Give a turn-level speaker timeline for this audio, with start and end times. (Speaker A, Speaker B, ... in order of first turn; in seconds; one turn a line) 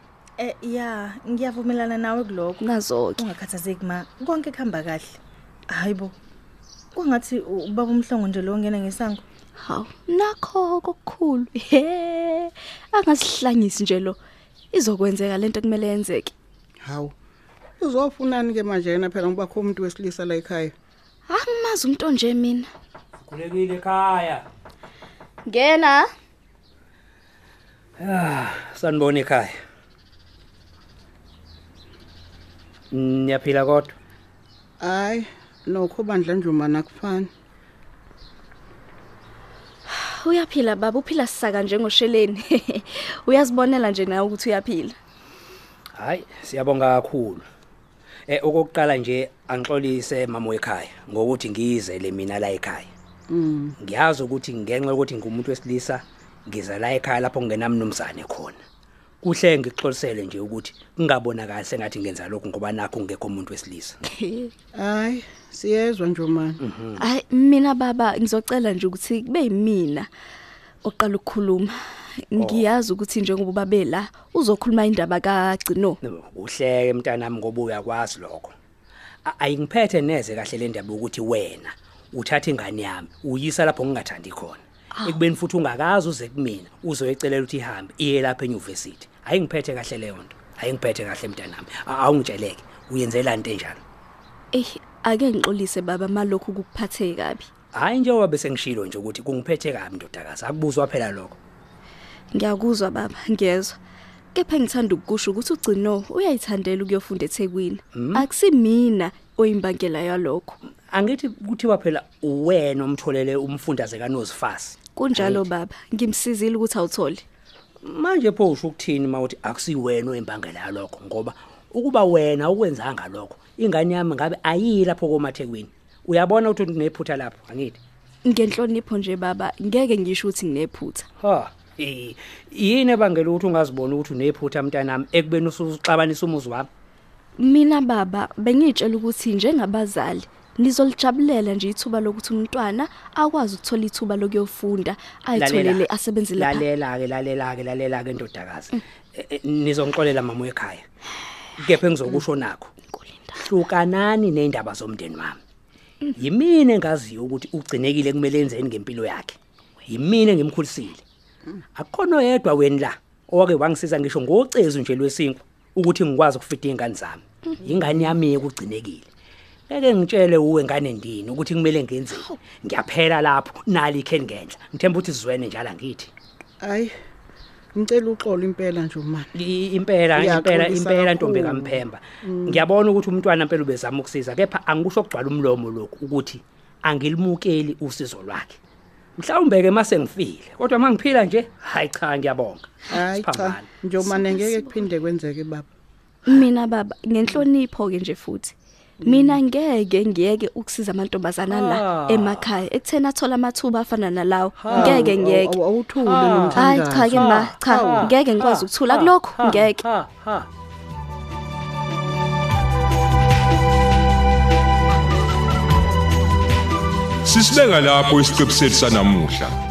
Speaker A: 0.4-2.7
Speaker B: 2.6-3.2
Speaker A: 3.2-5.2
Speaker A: 5.7-6.2
Speaker A: 6.9-9.2
Speaker B: 9.6-14.2
Speaker B: 14.7-16.3
Speaker C: 16.8-17.1
Speaker C: 17.8-20.7
Speaker B: 21.3-22.7
Speaker D: 23.2-24.5
Speaker B: 25.4-26.1
Speaker D: 28.0-29.5
Speaker D: 32.9-34.0
Speaker C: 34.8-37.3
Speaker B: 39.9-45.0
Speaker D: 46.0-47.5
Speaker D: 48.3-52.9
Speaker C: 53.3-53.8
Speaker D: 53.8-58.6
Speaker D: 59.2-64.0
Speaker B: 64.0-64.5
Speaker C: 64.8-66.6
Speaker D: 66.6-67.0
Speaker B: 67.0-70.1
Speaker B: 70.8-71.8
Speaker B: 72.3-76.0
Speaker D: 72.4-72.7
Speaker D: 76.0-78.5
Speaker D: 79.2-93.8
Speaker B: 94.5-97.5
Speaker D: 97.7-101.4
Speaker B: 102.3-103.8
Speaker B: 104.3-110.6
Speaker D: 107.9-108.2
Speaker D: 110.9-115.4
Speaker B: 115.0-117.2
Speaker D: 117.8-127.8
Speaker B: 128.2-131.1
Speaker D: 131.2-136.7
Speaker B: 137.4-146.7
Speaker D: 145.4-150.8
Speaker D: 151.6-152.7
Speaker B: 152.9-153.4
Speaker D: 153.4-155.4
Speaker D: 156.2-161.0
Speaker D: 161.8-169.1
Speaker D: 169.7-176.1
Speaker C: 176.6-176.9
Speaker C: 177.7-179.3
Speaker D: 179.3-188.6
Speaker C: 180.1-182.6
Speaker D: 189.2-193.7
Speaker C: 192.9-195.7
Speaker B: 194.1-194.7
Speaker B: 196.3-205.6
Speaker C: 199.0-199.3
Speaker D: 201.5-202.5
Speaker D: 204.6-205.2
Speaker C: 204.7-208.1
Speaker D: 206.0-210.5
Speaker B: 206.5-209.8
Speaker E: 217.3-219.5